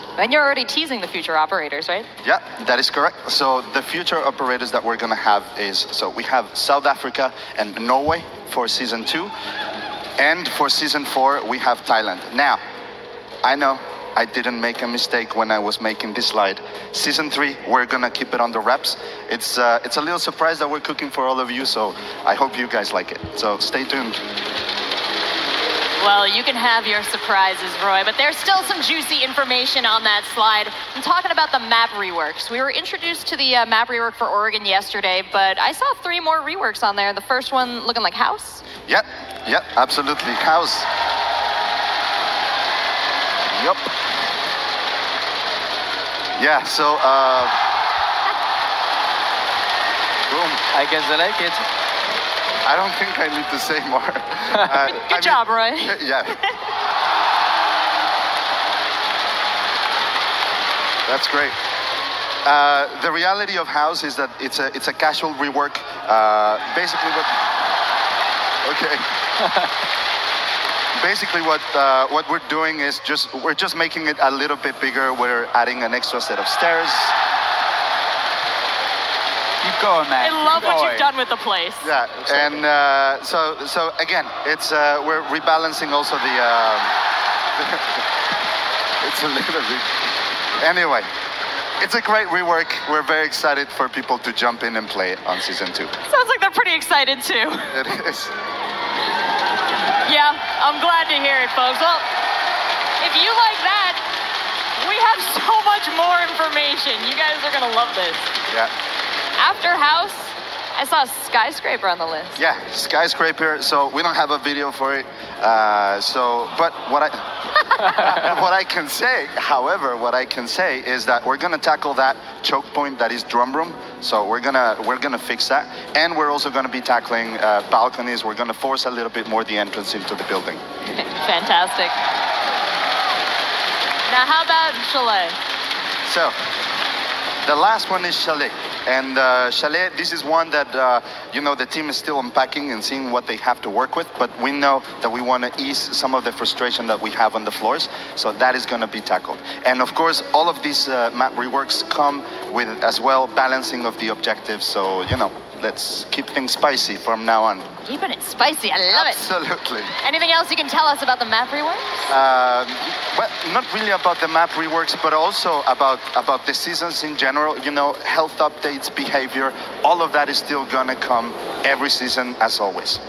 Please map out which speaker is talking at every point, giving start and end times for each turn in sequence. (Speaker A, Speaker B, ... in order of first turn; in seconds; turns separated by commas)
Speaker A: 0.2-2.1, Speaker B: 2.2-9.3, Speaker B: 10.2-12.6, Speaker B: 13.4-24.2, Speaker A: 26.0-38.6, Speaker B: 38.9-40.9, Speaker B: 46.4-47.6, Speaker B: 50.3-50.6, Speaker C: 50.7-51.6, Speaker B: 52.6-56.4, Speaker A: 54.8-56.5, Speaker B: 61.1-61.6, Speaker B: 62.5-67.4, Speaker B: 68.6-69.1, Speaker B: 71.0-77.2, Speaker C: 79.6-81.1, Speaker A: 80.2-81.9, Speaker B: 81.8-87.0, Speaker B: 87.6-88.1, Speaker B: 89.0-90.0, Speaker B: 90.6-91.1, Speaker B: 91.8-95.9, Speaker A: 96.1-97.8, Speaker B: 97.7-98.3, Speaker A: 100.0-102.1, Speaker A: 103.0-104.0, Speaker A: 104.8-108.3, Speaker A: 109.4-112.4, Speaker B: 112.4-130.6, Speaker A: 130.9-132.0, Speaker A: 134.1-135.4, Speaker B: 136.1-136.4, Speaker B: 137.4-157.7, Speaker A: 157.8-159.2, Speaker B: 158.9-159.9, Speaker A: 160.0-161.9, Speaker B: 162.1-173.0